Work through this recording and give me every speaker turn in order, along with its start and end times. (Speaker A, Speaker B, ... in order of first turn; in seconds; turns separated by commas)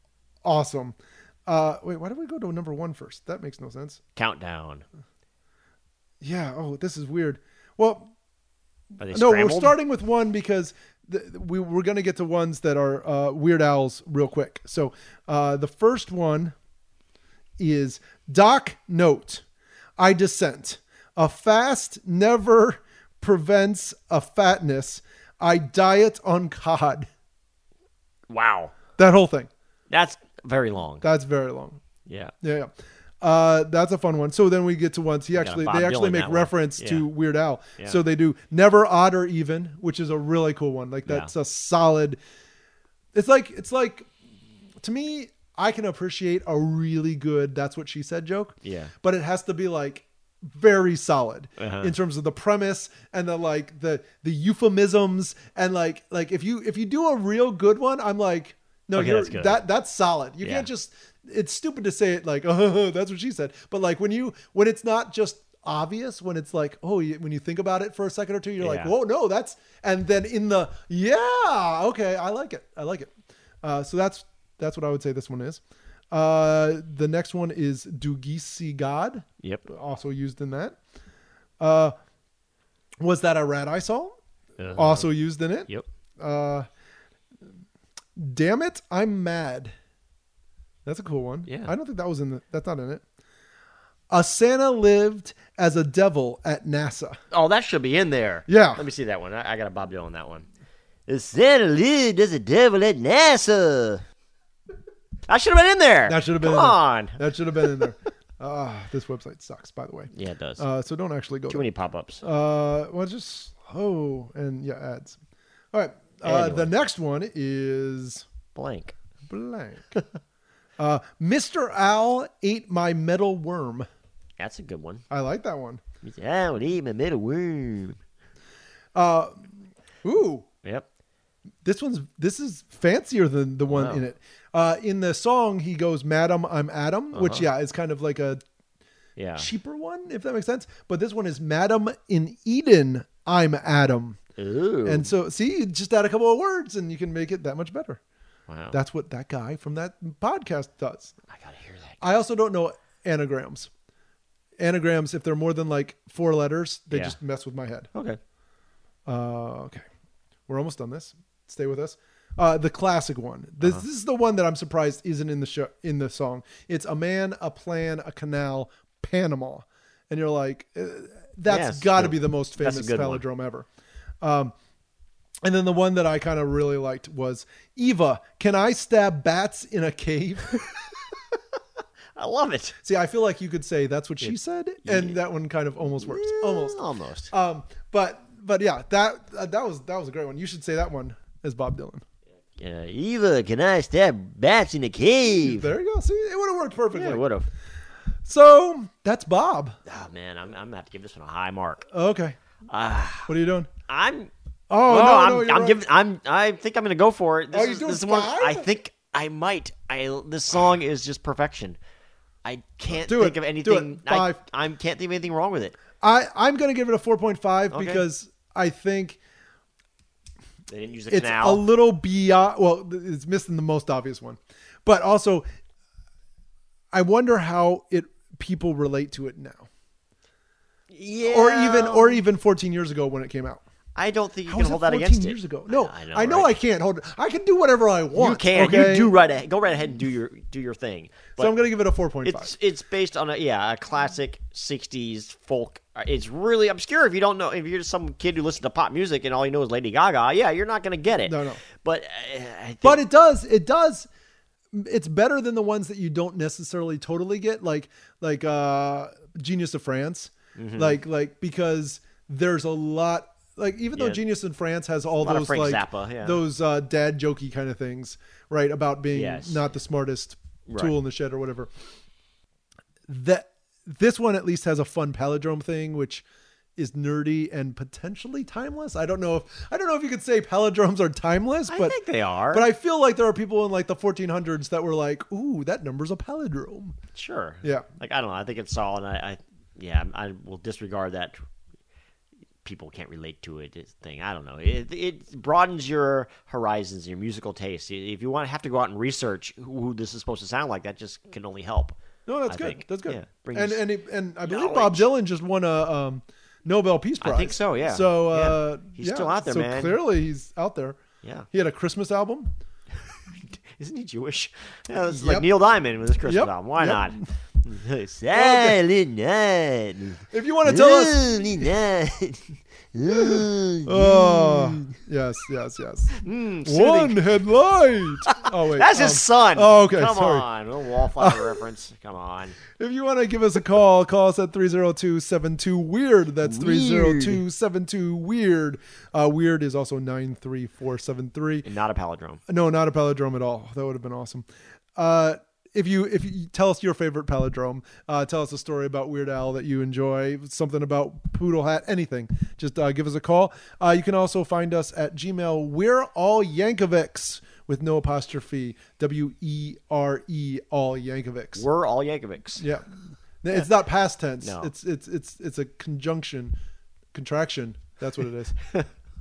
Speaker A: 0.4-4.0, Speaker B: 4.2-4.8, Speaker A: 6.2-8.1, Speaker B: 9.0-9.8, Speaker A: 9.1-16.5, Speaker A: 17.6-19.4, Speaker A: 20.0-27.1, Speaker B: 28.3-28.7, Speaker A: 29.0-29.5, Speaker B: 29.9-31.0, Speaker A: 31.0-31.8, Speaker B: 32.0-32.3, Speaker A: 32.4-42.2, Speaker B: 35.3-37.0, Speaker B: 41.1-41.3, Speaker A: 43.1-44.1, Speaker A: 44.8-80.8, Speaker B: 48.6-48.9, Speaker B: 51.6-51.9, Speaker B: 58.9-59.6, Speaker B: 60.4-60.7, Speaker B: 68.6-68.9, Speaker A: 81.6-81.9, Speaker A: 83.0-84.2, Speaker B: 84.6-85.1, Speaker A: 84.8-86.7, Speaker A: 88.2-89.7, Speaker A: 90.8-93.0, Speaker B: 91.5-91.7, Speaker A: 94.1-97.2, Speaker B: 97.3-100.5, Speaker A: 98.5-98.8, Speaker B: 101.1-104.0, Speaker B: 105.3-107.2, Speaker A: 106.1-111.7, Speaker B: 110.1-110.6, Speaker B: 111.5-112.2, Speaker A: 112.2-115.2, Speaker A: 115.7-118.2, Speaker B: 116.2-116.7, Speaker B: 118.5-119.0, Speaker A: 119.3-119.9, Speaker A: 120.8-123.8, Speaker B: 124.4-125.0, Speaker A: 125.1-125.8, Speaker B: 126.0-128.0, Speaker A: 128.9-129.5, Speaker A: 130.0-130.5, Speaker A: 131.6-138.4, Speaker B: 133.7-134.0, Speaker B: 137.1-137.5, Speaker B: 139.2-139.5, Speaker A: 139.4-144.2, Speaker B: 144.4-145.1, Speaker A: 144.8-148.0, Speaker B: 148.5-148.8, Speaker A: 148.7-151.1, Speaker B: 151.3-152.0, Speaker A: 152.0-153.7, Speaker A: 154.6-157.9, Speaker A: 159.1-159.8, Speaker A: 160.5-173.7, Speaker B: 171.5-173.2, Speaker A: 174.2-174.5, Speaker A: 175.4-180.6, Speaker B: 182.2-182.8, Speaker A: 182.8-192.0, Speaker B: 184.8-185.2, Speaker B: 185.8-187.3, Speaker B: 192.6-195.7, Speaker A: 195.4-197.2, Speaker B: 196.9-197.5, Speaker A: 198.2-199.7, Speaker B: 199.8-201.8, Speaker A: 201.9-202.4, Speaker B: 202.7-203.3, Speaker A: 203.3-203.7, Speaker B: 203.9-204.3, Speaker A: 204.7-205.8, Speaker B: 204.9-211.8, Speaker A: 207.5-208.7, Speaker B: 212.4-215.8, Speaker A: 212.9-214.4, Speaker A: 216.0-219.2, Speaker B: 217.7-218.0, Speaker B: 220.7-221.6, Speaker A: 221.1-225.4, Speaker A: 226.9-229.7, Speaker B: 230.9-232.2, Speaker A: 231.2-233.6, Speaker B: 233.9-236.5, Speaker A: 234.5-239.1, Speaker B: 238.1-241.5, Speaker A: 241.4-242.5, Speaker B: 242.2-253.0, Speaker A: 251.2-251.6, Speaker A: 252.8-254.1, Speaker A: 254.7-271.7, Speaker B: 260.6-261.0, Speaker B: 263.9-264.2, Speaker B: 265.2-266.4, Speaker B: 269.1-269.6, Speaker B: 270.7-270.9, Speaker A: 273.1-276.2, Speaker A: 276.8-282.0, Speaker B: 281.7-282.7, Speaker A: 282.5-287.0, Speaker B: 287.1-291.4, Speaker B: 292.6-302.0, Speaker A: 302.2-311.0, Speaker B: 302.5-303.8, Speaker B: 304.4-305.1, Speaker B: 307.2-310.0, Speaker A: 311.5-312.5, Speaker B: 313.7-324.9, Speaker A: 315.1-315.5, Speaker A: 316.2-317.2, Speaker A: 318.3-318.8, Speaker A: 320.3-321.4, Speaker A: 323.1-330.5, Speaker B: 326.1-327.2, Speaker B: 328.3-332.6, Speaker A: 331.2-331.6, Speaker A: 332.7-341.7, Speaker B: 336.4-337.4, Speaker B: 341.6-342.4, Speaker A: 342.5-361.7, Speaker B: 361.6-362.6, Speaker A: 362.6-362.8, Speaker A: 363.4-366.6, Speaker B: 364.4-364.7, Speaker A: 367.1-368.6